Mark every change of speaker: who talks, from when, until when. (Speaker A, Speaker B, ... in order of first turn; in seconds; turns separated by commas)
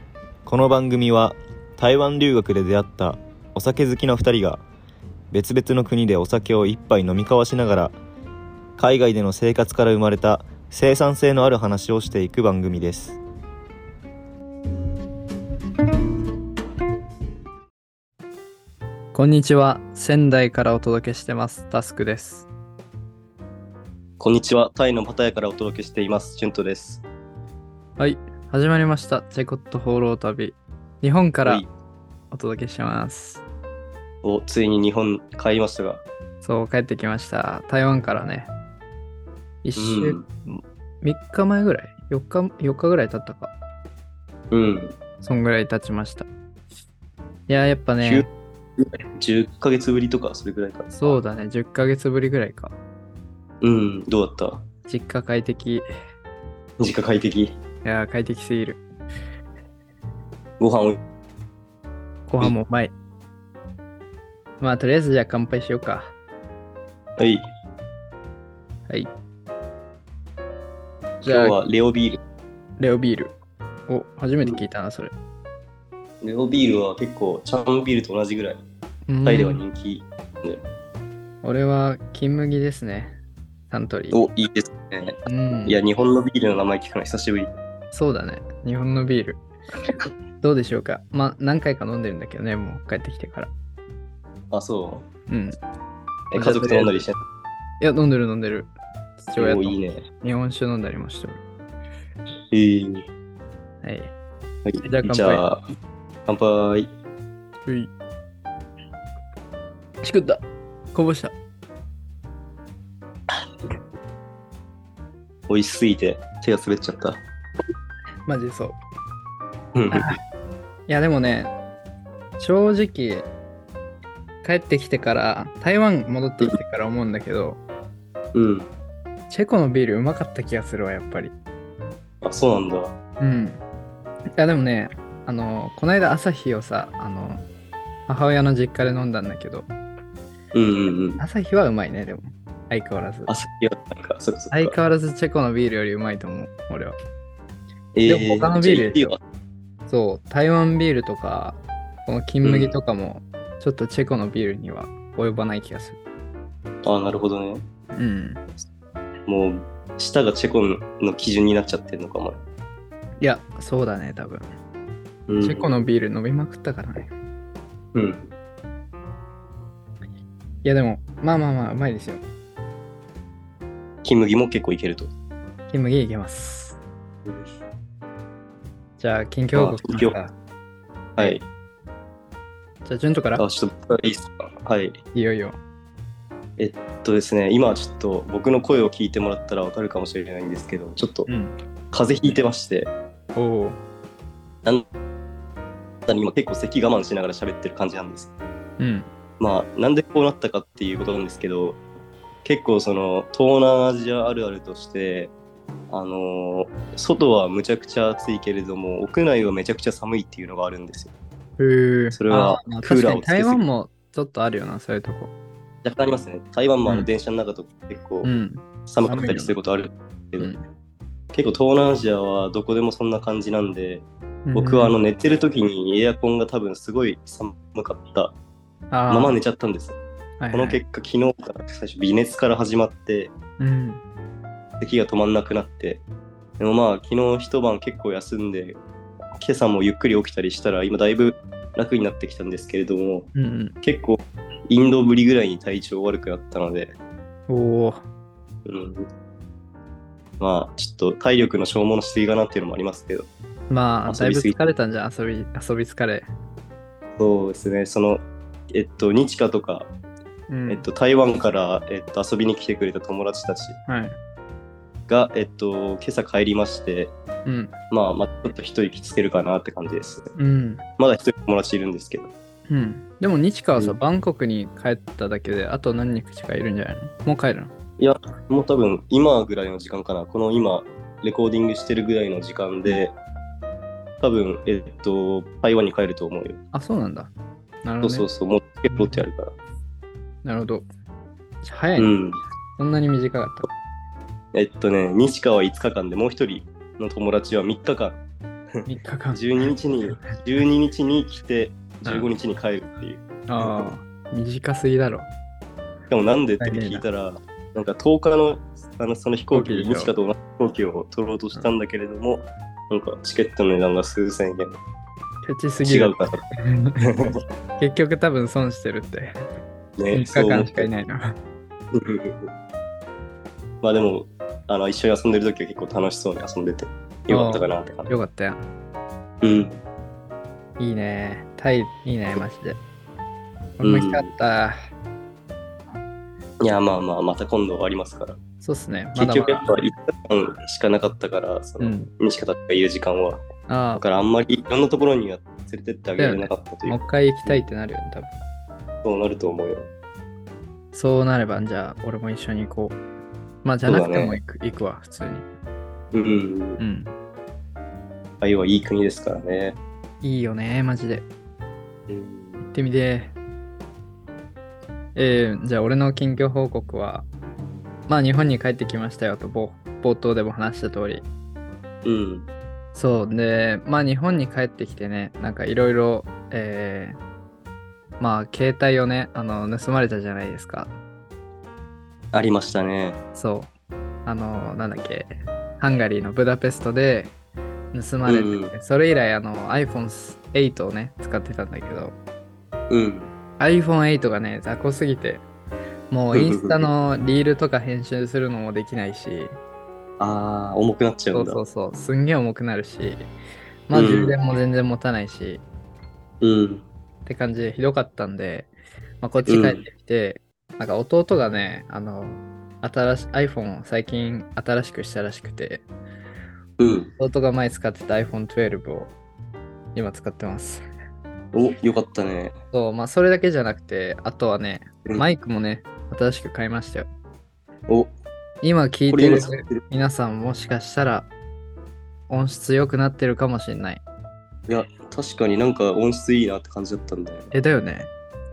Speaker A: 0.5-4.6, Speaker A: 5.3-8.0, Speaker A: 8.8-13.2, Speaker B: 19.1-22.5, Speaker C: 24.2-27.0, Speaker B: 28.0-31.6, Speaker B: 32.3-33.4, Speaker C: 34.2-36.0, Speaker B: 36.4-38.5, Speaker B: 39.6-43.5, Speaker C: 39.8-40.3, Speaker C: 44.5-45.0, Speaker B: 45.2-46.3, Speaker B: 47.5-48.3, Speaker C: 48.0-51.2, Speaker B: 51.0-52.8, Speaker C: 53.6-54.6, Speaker B: 54.9-55.8, Speaker C: 56.8-57.6, Speaker B: 57.8-58.8, Speaker C: 60.6-61.0, Speaker B: 62.3-62.9, Speaker B: 64.6-66.1, Speaker C: 67.2-67.4, Speaker C: 71.2-72.2, Speaker B: 71.2-71.6, Speaker B: 72.8-73.3, Speaker B: 73.9-75.1, Speaker C: 76.2-78.6, Speaker B: 79.1-79.6, Speaker C: 79.2-80.6, Speaker B: 81.4-83.2, Speaker B: 83.7-84.2, Speaker C: 84.1-87.5, Speaker B: 85.3-85.8, Speaker B: 87.9-89.4, Speaker B: 90.4-93.5, Speaker C: 94.5-95.1, Speaker B: 95.3-95.6, Speaker B: 96.3-97.0, Speaker C: 96.3-97.2, Speaker B: 97.8-101.4, Speaker C: 99.4-100.1, Speaker C: 102.5-103.1, Speaker B: 103.8-104.1, Speaker C: 104.7-105.6, Speaker B: 104.8-105.4, Speaker C: 106.3-106.9, Speaker B: 110.0-111.3, Speaker C: 115.5-117.2, Speaker B: 118.3-118.8, Speaker C: 119.8-120.1, Speaker B: 119.9-120.2, Speaker B: 120.9-121.5, Speaker B: 122.4-123.3, Speaker B: 124.4-127.6, Speaker C: 128.3-128.7, Speaker B: 129.3-131.3, Speaker C: 132.2-133.0, Speaker B: 133.2-133.6, Speaker B: 134.4-137.4, Speaker B: 138.1-139.7, Speaker C: 140.5-141.2, Speaker B: 141.2-143.3, Speaker C: 143.3-144.8, Speaker B: 144.5-147.0, Speaker C: 147.9-149.2, Speaker B: 148.1-149.2, Speaker B: 149.9-156.0, Speaker C: 152.4-152.8, Speaker C: 156.8-157.6, Speaker B: 157.9-158.4, Speaker C: 159.3-162.4, Speaker B: 163.2-164.5, Speaker C: 165.3-165.7, Speaker B: 165.4-167.1, Speaker C: 167.9-168.3, Speaker B: 170.6-172.2, Speaker C: 174.0-175.1, Speaker B: 175.7-176.8, Speaker B: 179.0-180.3, Speaker C: 179.6-180.2, Speaker C: 181.2-181.4, Speaker B: 182.8-183.4, Speaker C: 183.4-185.0, Speaker B: 185.1-185.6, Speaker C: 186.6-191.3, Speaker B: 191.3-191.5, Speaker C: 191.9-192.9, Speaker B: 193.3-193.8, Speaker C: 196.1-198.3, Speaker B: 198.8-199.1, Speaker C: 199.4-201.8, Speaker C: 202.4-205.3, Speaker C: 205.9-211.1, Speaker B: 211.6-215.3, Speaker C: 212.1-213.6, Speaker C: 215.8-218.3, Speaker B: 218.2-219.5, Speaker C: 218.9-220.5, Speaker C: 221.3-228.3, Speaker B: 224.5-224.9, Speaker B: 228.9-229.4, Speaker C: 229.1-230.0, Speaker B: 230.4-230.8, Speaker C: 230.5-233.3, Speaker B: 233.6-234.0, Speaker C: 234.8-236.0, Speaker C: 236.6-238.8, Speaker C: 239.4-247.0, Speaker B: 243.3-243.8, Speaker B: 247.5-248.0, Speaker C: 248.7-249.1, Speaker C: 250.4-253.3, Speaker B: 253.7-256.3, Speaker C: 254.1-254.6, Speaker C: 257.2-259.9, Speaker B: 260.5-260.9, Speaker C: 260.7-263.8, Speaker B: 263.9-264.2, Speaker C: 265.1-267.1, Speaker B: 267.4-267.7, Speaker C: 267.9-270.3, Speaker B: 270.4-270.8, Speaker C: 271.0-272.3, Speaker B: 272.7-277.7, Speaker C: 278.0-283.1, Speaker C: 284.2-286.6, Speaker B: 286.7-287.3, Speaker B: 287.9-288.3, Speaker C: 288.0-289.6, Speaker B: 288.9-289.2, Speaker B: 290.4-290.9, Speaker B: 291.6-292.1, Speaker C: 292.0-292.4, Speaker B: 292.8-293.7, Speaker C: 294.5-298.2, Speaker C: 298.8-303.9, Speaker B: 298.9-299.7, Speaker B: 303.5-305.3, Speaker C: 306.1-314.8, Speaker B: 306.6-307.1, Speaker B: 309.5-310.1, Speaker B: 315.4-317.0, Speaker C: 315.8-316.4, Speaker C: 317.0-317.3, Speaker B: 317.8-319.5, Speaker C: 320.0-320.9, Speaker B: 320.1-321.4, Speaker C: 321.9-322.5, Speaker C: 323.8-328.1, Speaker B: 327.3-328.6, Speaker C: 329.4-329.8, Speaker B: 330.8-332.8, Speaker B: 333.8-334.8, Speaker C: 333.8-334.3, Speaker C: 336.6-338.4, Speaker B: 338.6-339.7, Speaker C: 339.1-343.4, Speaker B: 341.8-342.1, Speaker B: 343.7-344.1, Speaker C: 344.0-347.7, Speaker B: 346.2-348.4, Speaker C: 349.0-349.9, Speaker B: 350.9-353.0, Speaker B: 353.6-355.4, Speaker C: 353.9-354.4, Speaker C: 356.1-356.8, Speaker B: 356.8-357.1, Speaker C: 358.4-359.8, Speaker B: 360.2-361.2, Speaker C: 362.1-362.7, Speaker B: 362.6-363.3, Speaker B: 365.1-367.3, Speaker B: 368.1-371.3, Speaker C: 372.1-372.5, Speaker B: 372.9-377.2, Speaker B: 378.2-380.9, Speaker C: 382.3-383.2, Speaker B: 383.4-383.7, Speaker B: 384.3-387.3, Speaker B: 387.9-392.1, Speaker C: 388.2-388.8, Speaker C: 392.9-393.3, Speaker B: 393.6-395.4, Speaker B: 396.1-399.6, Speaker C: 396.3-396.9, Speaker C: 400.2-401.6, Speaker B: 401.3-403.3, Speaker B: 403.9-405.6, Speaker C: 403.9-404.4, Speaker C: 406.4-406.9, Speaker B: 407.3-415.9, Speaker C: 409.5-409.9, Speaker C: 416.8-417.1, Speaker B: 417.2-419.1, Speaker B: 419.9-420.9, Speaker C: 421.5-422.6, Speaker B: 422.7-427.1, Speaker B: 428.6-431.3, Speaker C: 429.1-429.8, Speaker B: 432.3-434.0, Speaker C: 434.7-437.5, Speaker B: 437.5-438.1